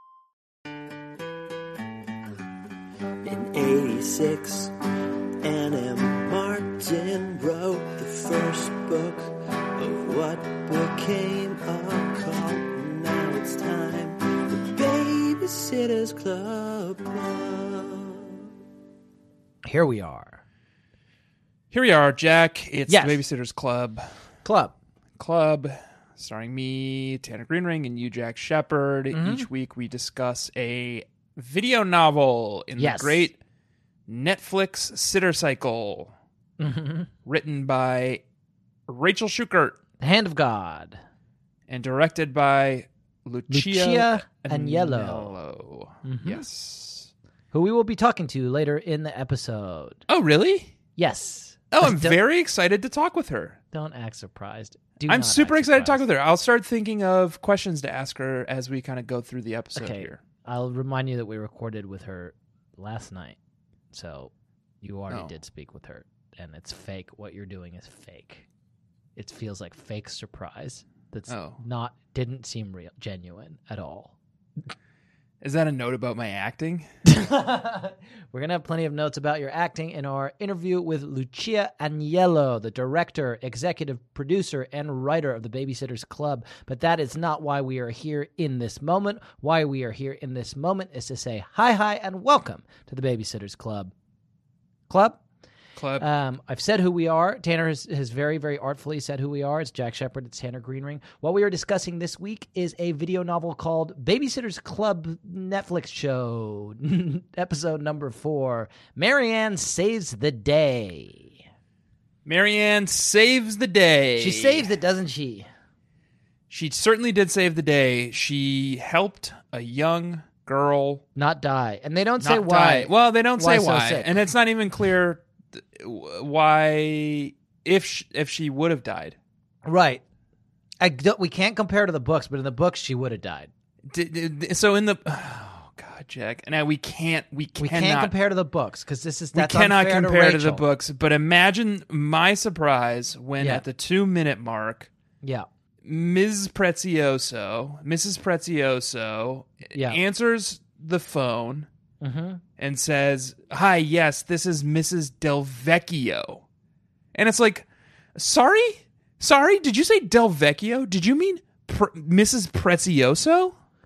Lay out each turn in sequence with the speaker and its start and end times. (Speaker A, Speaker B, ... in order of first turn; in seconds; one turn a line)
Speaker A: 3.2-4.7
Speaker A: 5.4-18.3
Speaker B: 19.7-20.4
Speaker C: 21.7-24.1
Speaker B: 22.9-23.2
Speaker B: 24.4-24.8
Speaker C: 25.2-33.4
Speaker B: 29.1-29.5
Speaker B: 32.8-33.3
Speaker C: 34.1-36.1
Speaker B: 36.6-37.1
Speaker C: 37.3-38.2
Speaker C: 38.9-39.8
Speaker B: 40.0-41.0
Speaker C: 41.7-47.1
Speaker B: 43.5-45.4
Speaker B: 46.0-46.5
Speaker B: 47.5-50.0
Speaker C: 50.1-50.7
Speaker B: 51.0-52.2
Speaker C: 51.7-53.6
Speaker B: 53.7-56.0
Speaker C: 55.1-60.2
Speaker B: 59.7-63.4
Speaker B: 63.9-64.3
Speaker B: 64.8-68.5
Speaker C: 65.1-65.3
Speaker B: 69.2-74.2
Speaker C: 71.3-71.6
Speaker C: 75.4-76.9
Speaker B: 77.1-93.9
Speaker B: 94.9-95.2
Speaker C: 95.8-96.1
Speaker B: 96.0-111.4
Speaker C: 112.2-114.7
Speaker B: 114.2-115.5
Speaker C: 116.5-121.0
Speaker B: 121.2-124.3
Speaker C: 122.2-129.2
Speaker B: 129.7-130.0
Speaker B: 130.8-133.5
Speaker C: 133.9-138.1
Speaker B: 137.6-140.6
Speaker C: 139.3-144.9
Speaker B: 143.4-143.6
Speaker C: 145.8-151.7
Speaker B: 149.7-150.0
Speaker B: 152.0-152.4
Speaker C: 152.6-156.4
Speaker C: 157.1-163.6